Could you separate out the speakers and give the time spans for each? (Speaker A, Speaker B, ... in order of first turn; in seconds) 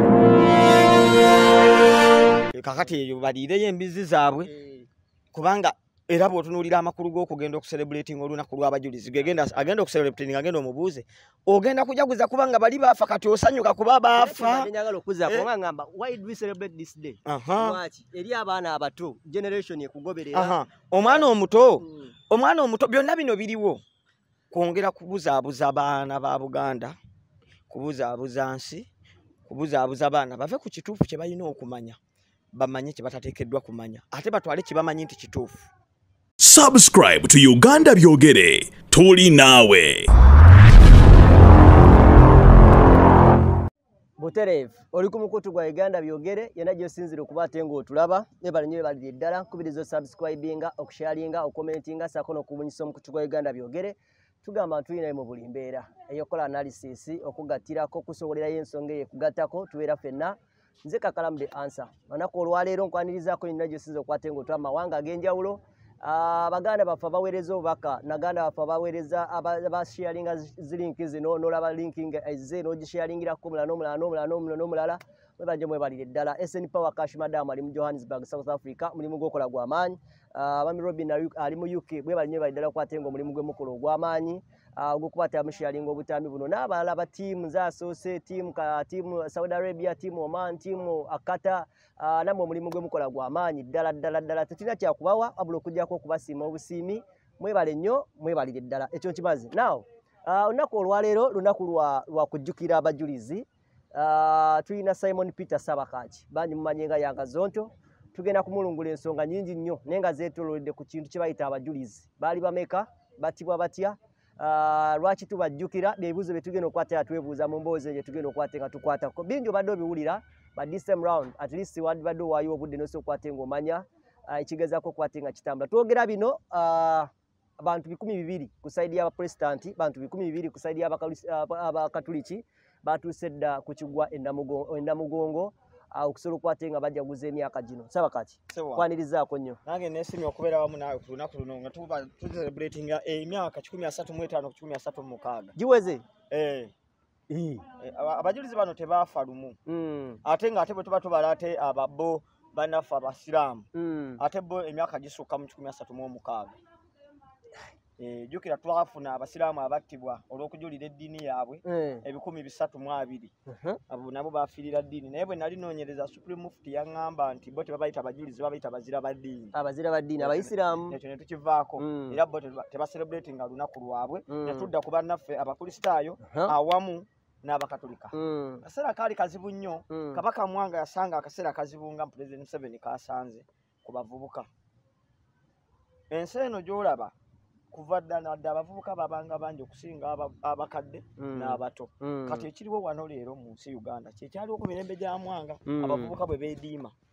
Speaker A: 2.5-4.5, 5.3-14.7, 17.2-17.8, 20.3-23.8, 24.5-27.0, 27.7-28.9, 29.5-32.0, 32.5-35.7, 138.5-138.9, 139.7-145.6, 146.3-146.7, 147.3-149.6, 150.2-153.7, 154.2-156.6, 158.0-163.3, 163.9-169.6, 170.2-184.5, 186.1-187.1, 187.7-196.9
Speaker B: 4.5-4.9, 14.2-21.3, 21.8-22.1, 44.2-139.6, 145.6-146.0, 149.7-150.2, 153.7-154.2, 161.7-162.0, 163.5-163.8, 169.5-171.0, 171.8-172.2, 174.3-174.7, 176.2-176.6, 178.1-178.6, 179.9-180.2, 191.2-192.5, 195.7-196.2
Speaker C: 36.4-40.1